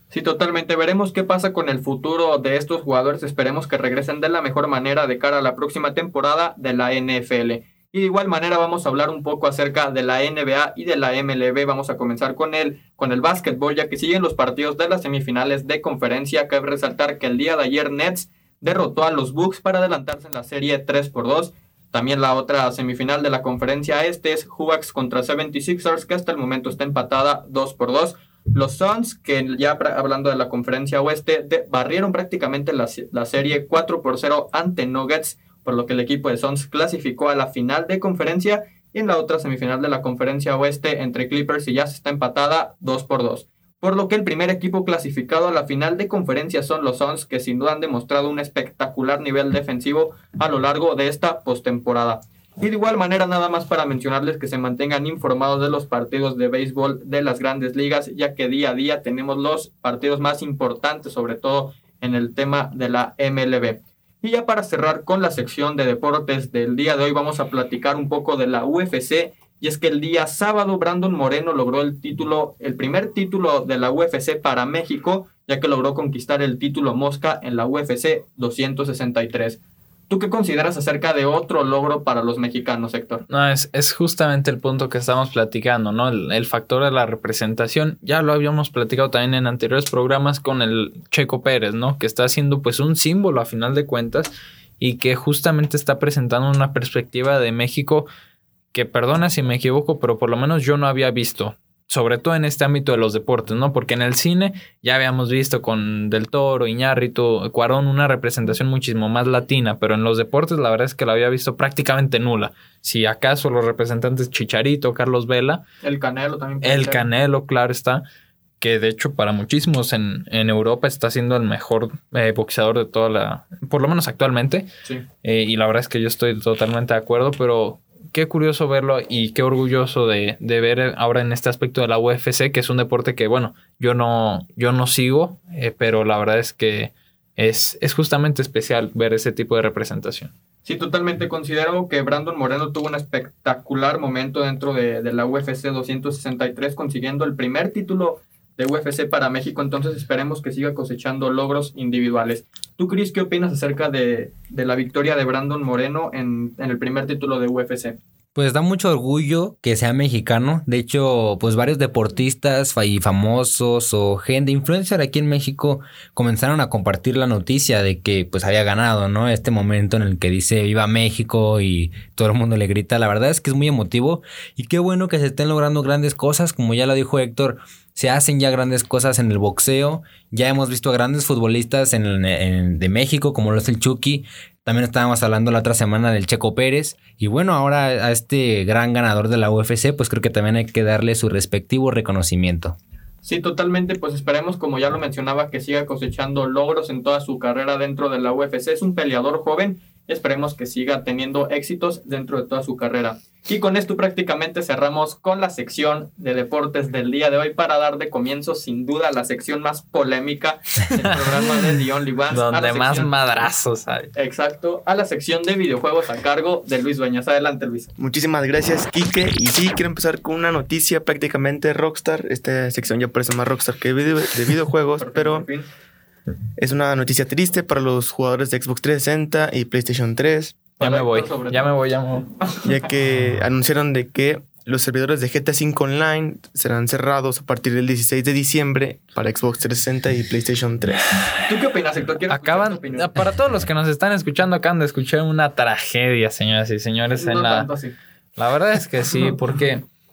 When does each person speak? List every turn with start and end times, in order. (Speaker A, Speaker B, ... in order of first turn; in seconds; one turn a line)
Speaker A: 0.1-83.2
Speaker B: 83.3-98.1
Speaker B: 98.7-115.6
Speaker A: 115.8-117.1
Speaker B: 116.6-118.0
Speaker B: 118.6-124.7
Speaker B: 125.2-140.3
Speaker A: 140.7-158.0
Speaker C: 158.3-192.8
Speaker A: 193.2-213.2
Speaker B: 211.1-211.4
Speaker B: 212.3-214.1
Speaker A: 214.2-217.9
Speaker D: 218.0-225.5
Speaker A: 225.0-225.7
Speaker D: 226.6-230.6
Speaker A: 230.8-231.7
Speaker B: 230.8-232.3
Speaker A: 232.3-232.8
Speaker D: 232.6-241.2
Speaker A: 241.5-243.1
Speaker B: 242.3-247.7
Speaker A: 247.2-247.9
Speaker B: 248.4-249.9